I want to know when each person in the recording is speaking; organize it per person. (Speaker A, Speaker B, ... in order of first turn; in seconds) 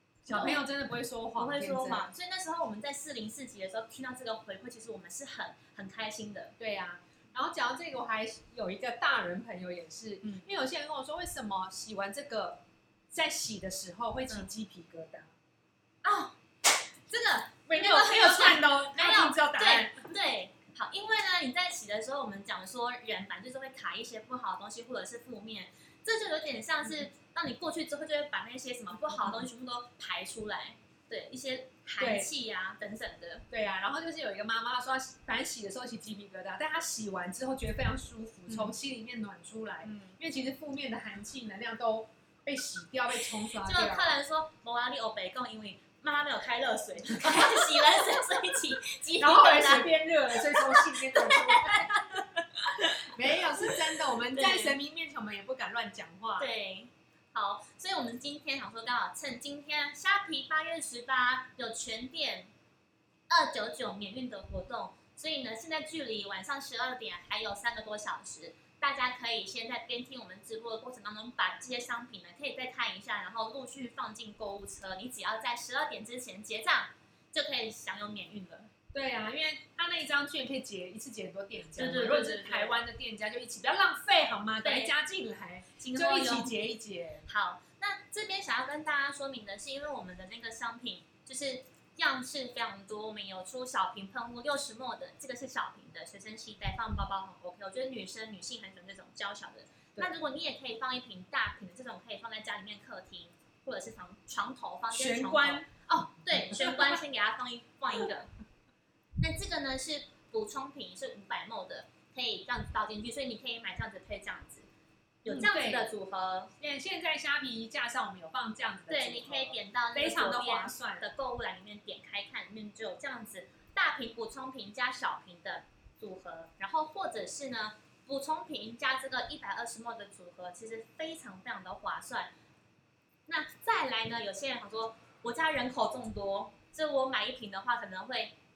Speaker A: 0.2-2.0, 6.6-15.3, 17.7-20.1, 29.1-29.4, 32.0-32.3, 33.5-44.2, 47.2-47.6, 49.2-52.2, 53.0-56.5, 78.9-87.2, 104.9-105.7, 106.3-107.0, 115.2-115.9, 116.6-121.0
Speaker B: 0.3-0.6, 1.4-6.5, 16.0-33.5, 39.9-40.1, 43.6-54.8, 56.4-62.5, 63.3-78.7, 81.8-82.8, 84.6-84.9, 85.8-86.5, 87.3-108.3, 109.2-114.7, 115.2-116.5, 118.9-132.3, 133.3-138.3